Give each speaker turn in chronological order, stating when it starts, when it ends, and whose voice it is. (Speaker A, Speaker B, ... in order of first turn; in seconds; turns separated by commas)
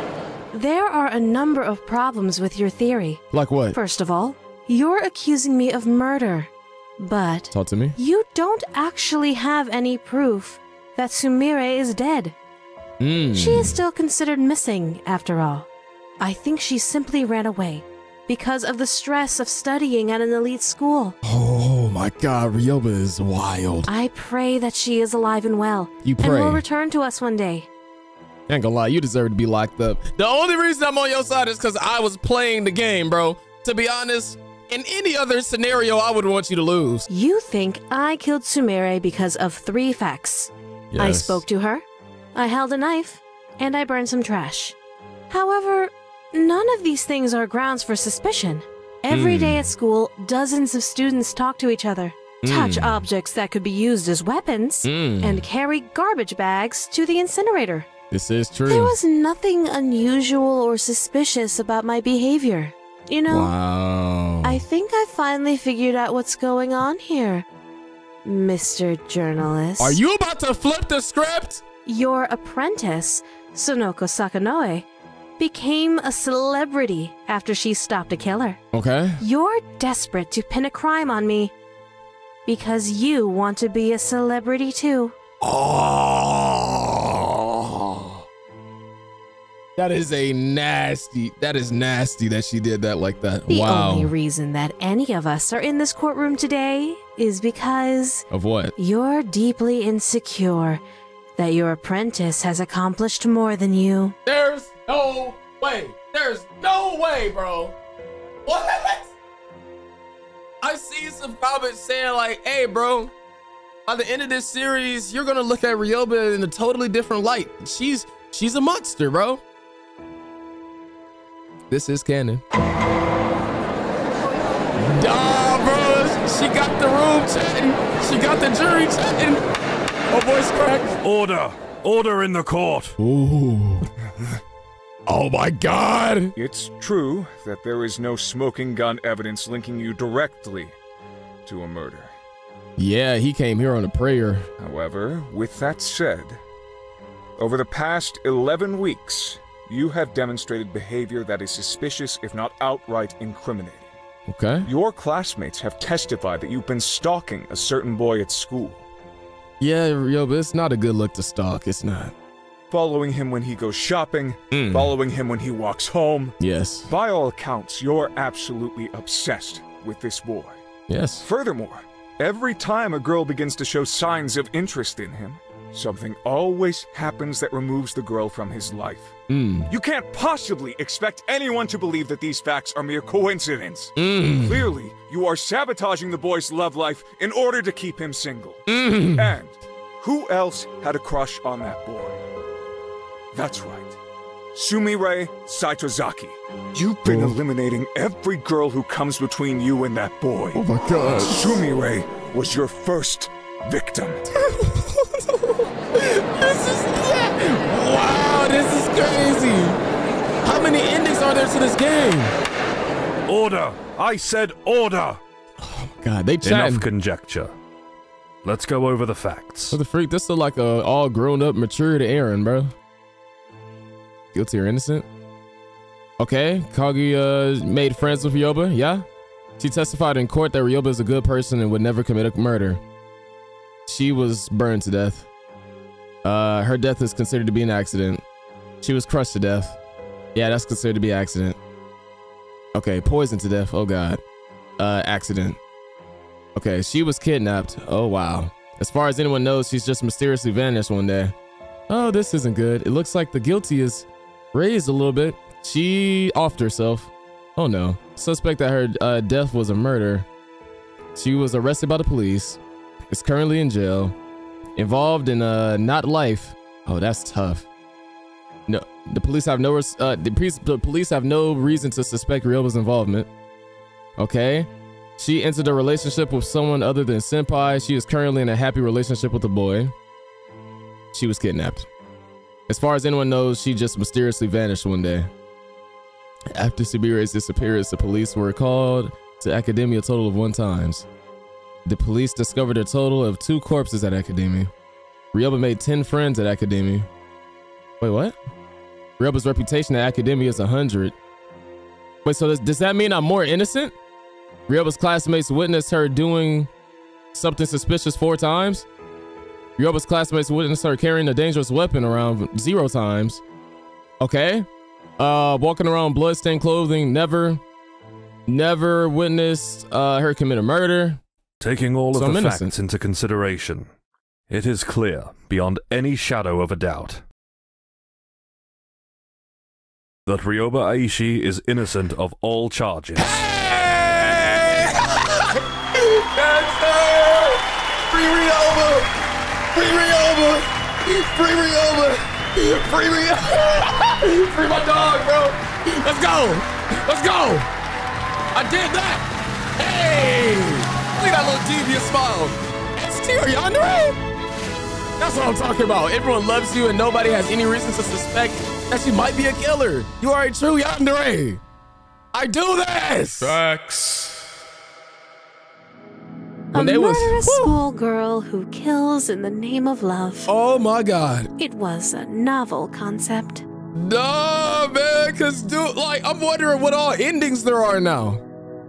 Speaker A: 0.5-12.3, Speaker B: 3.3-3.8, Speaker B: 7.5-8.0, Speaker B: 13.0-13.7, Speaker A: 13.3-15.7, Speaker A: 16.2-21.2, Speaker B: 21.2-23.9, Speaker A: 23.9-27.7, Speaker B: 26.0-26.6, Speaker B: 28.5-37.1, Speaker A: 37.1-41.8, Speaker B: 40.9-41.4, Speaker A: 42.3-44.8, Speaker A: 45.3-57.9, Speaker B: 49.1-49.6, Speaker B: 52.4-53.0, Speaker B: 54.8-55.4, Speaker B: 58.1-58.9, Speaker A: 58.7-63.5, Speaker B: 63.3-64.6, Speaker A: 64.4-67.5, Speaker A: 68.2-70.0, Speaker B: 69.8-71.6, Speaker A: 71.8-74.8, Speaker A: 75.4-78.6, Speaker B: 78.7-79.2, Speaker A: 79.2-81.5, Speaker A: 82.5-85.2, Speaker B: 85.4-88.2, Speaker B: 89.8-94.1, Speaker A: 93.5-100.8, Speaker B: 98.3-98.7, Speaker A: 101.4-104.2, Speaker B: 104.2-107.7, Speaker B: 108.5-109.1, Speaker B: 110.6-113.1, Speaker B: 113.8-119.4, Speaker B: 121.7-122.4, Speaker B: 124.8-129.4, Speaker B: 130.1-131.0, Speaker C: 131.0-132.9, Speaker B: 133.0-133.9, Speaker B: 135.1-136.3, Speaker D: 136.3-140.8, Speaker D: 141.4-142.1, Speaker B: 142.8-144.5, Speaker D: 144.6-146.4, Speaker D: 147.4-153.9, Speaker B: 154.3-154.7, Speaker D: 154.7-158.8, Speaker B: 159.6-162.1, Speaker D: 162.7-166.3, Speaker B: 164.5-164.9, Speaker B: 166.4-166.9, Speaker D: 166.9-170.6, Speaker B: 170.9-171.2, Speaker D: 171.2-179.2, Speaker B: 179.3-179.7, Speaker D: 179.7-192.2, Speaker B: 184.0-184.6, Speaker B: 188.7-189.3, Speaker D: 193.3-194.0, Speaker D: 194.5-204.2, Speaker B: 197.0-197.3, Speaker B: 200.5-201.6, Speaker B: 204.2-209.8, Speaker B: 210.4-212.3, Speaker C: 213.3-215.2, Speaker B: 215.6-216.8, Speaker C: 216.4-217.5, Speaker C: 218.4-219.8, Speaker B: 219.7-222.7, Speaker B: 224.3-225.1, Speaker B: 226.2-229.0, Speaker B: 229.6-232.8, Speaker B: 233.9-235.3, Speaker B: 236.2-238.2, Speaker B: 238.8-239.8, Speaker B: 240.3-241.6, Speaker B: 242.7-244.2, Speaker B: 244.8-245.6, Speaker B: 246.5-251.3, Speaker B: 251.9-260.2, Speaker B: 261.1-262.6, Speaker B: 263.1-264.1, Speaker B: 264.8-267.7, Speaker B: 268.7-273.3, Speaker B: 274.2-279.9, Speaker B: 281.1-281.9, Speaker B: 282.7-285.3, Speaker B: 286.5-291.1, Speaker B: 291.8-294.7, Speaker B: 295.3-297.1, Speaker B: 298.0-298.4, Speaker B: 299.2-301.1, Speaker B: 302.2-303.9, Speaker B: 304.7-306.7, Speaker B: 307.3-308.9, Speaker B: 309.8-313.4, Speaker B: 314.2-314.7, Speaker B: 315.2-317.6, Speaker B: 318.5-321.2, Speaker C: 321.6-323.9, Speaker B: 322.1-322.7, Speaker C: 324.5-327.2, Speaker C: 330.2-333.4, Speaker B: 333.1-339.1, Speaker B: 339.7-347.7, Speaker B: 348.5-349.2, Speaker B: 349.8-354.2, Speaker B: 355.2-361.6, Speaker B: 362.3-364.5, Speaker A: 366.7-370.5, Speaker B: 366.7-367.8, Speaker B: 370.5-371.5, Speaker A: 371.6-373.6, Speaker B: 373.9-378.4